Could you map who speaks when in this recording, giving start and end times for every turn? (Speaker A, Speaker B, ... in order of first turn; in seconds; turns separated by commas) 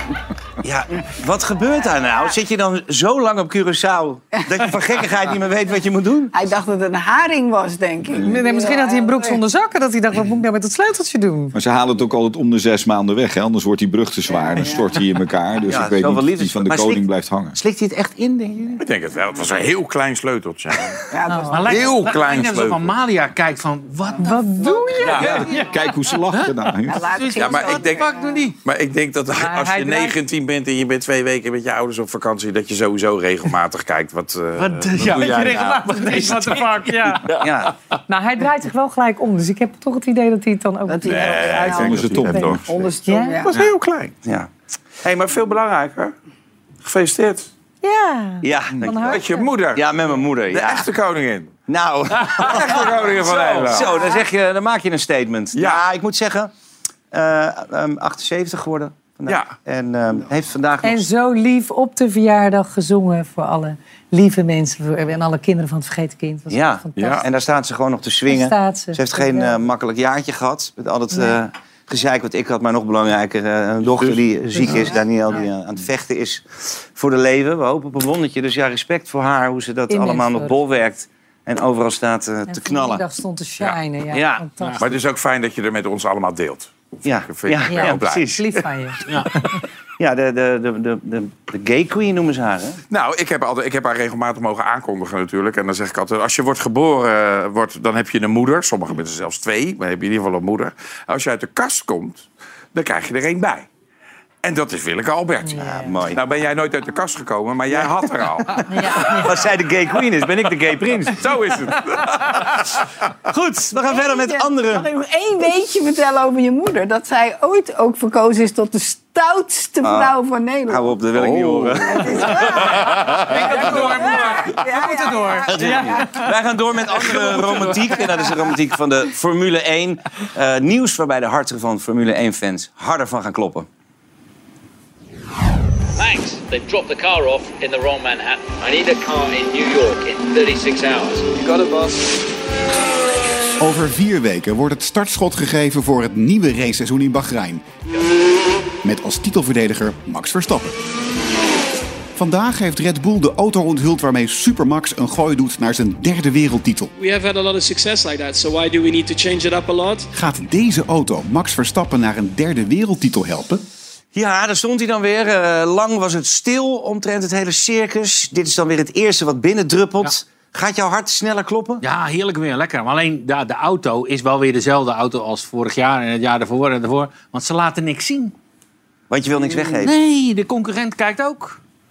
Speaker A: 0.6-6.3, Speaker B: 6.3-9.4, Speaker C: 8.1-11.6, Speaker D: 11.5-17.6, Speaker B: 14.3-15.0, Speaker A: 15.7-18.8, Speaker E: 18.8-21.0, Speaker B: 21.1-22.0, Speaker C: 21.3-21.6, Speaker F: 21.5-25.7, Speaker E: 21.6-22.9, Speaker C: 24.2-25.2, Speaker B: 24.6-25.2, Speaker E: 25.0-25.5, Speaker D: 25.1-27.0, Speaker F: 26.3-28.5, Speaker B: 26.9-28.2, Speaker E: 27.3-36.5, Speaker C: 29.3-30.2, Speaker F: 34.5-36.9, Speaker C: 35.1-37.3, Speaker A: 37.4-37.7, Speaker C: 38.1-43.4, Speaker B: 40.9-43.6, Speaker E: 41.0-42.9, Speaker D: 41.7-42.6, Speaker E: 43.5-44.1, Speaker E: 45.0-46.1, Speaker E: 46.8-47.5, Speaker C: 47.8-49.5, Speaker A: 48.4-50.9, Speaker E: 48.8-51.5, Speaker A: 51.7-56.5, Speaker E: 52.2-54.1, Speaker E: 55.5-55.9, Speaker A: 57.1-61.0, Speaker E: 59.3-59.6, Speaker C: 60.8-67.2, Speaker A: 66.5-83.0, Speaker E: 66.9-67.3, Speaker C: 68.3-69.6, Speaker C: 71.1-71.4, Speaker E: 74.0-74.9, Speaker C: 74.5-75.4, Speaker C: 79.9-80.6, Speaker C: 82.5-84.9, Speaker A: 84.1-84.4, Speaker E: 84.8-88.2, Speaker A: 87.0-88.4, Speaker C: 87.7-89.6, Speaker A: 90.0-92.8, Speaker E: 92.9-103.7, Speaker E: 104.4-109.4, Speaker C: 105.4-105.9, Speaker A: 105.6-106.2, Speaker A: 108.5-111.1, Speaker C: 108.7-109.2, Speaker E: 110.0-112.7, Speaker A: 113.3-114.8, Speaker B: 113.8-120.9, Speaker A: 119.8-120.1, Speaker A: 120.7-122.7, Speaker E: 121.1-124.1, Speaker B: 121.8-126.1, Speaker C: 123.3-126.3, Speaker F: 123.6-124.3, Speaker A: 125.4-133.7, Speaker G: 135.9-141.9, Speaker H: 143.6-147.6, Speaker H: 148.8-150.8, Speaker H: 152.2-156.9, Speaker I: 157.0-160.1, Speaker H: 160.1-163.6, Speaker A: 164.1-171.8, Speaker F: 171.8-178.3, Speaker A: 179.1-179.9, Speaker F: 179.7-181.6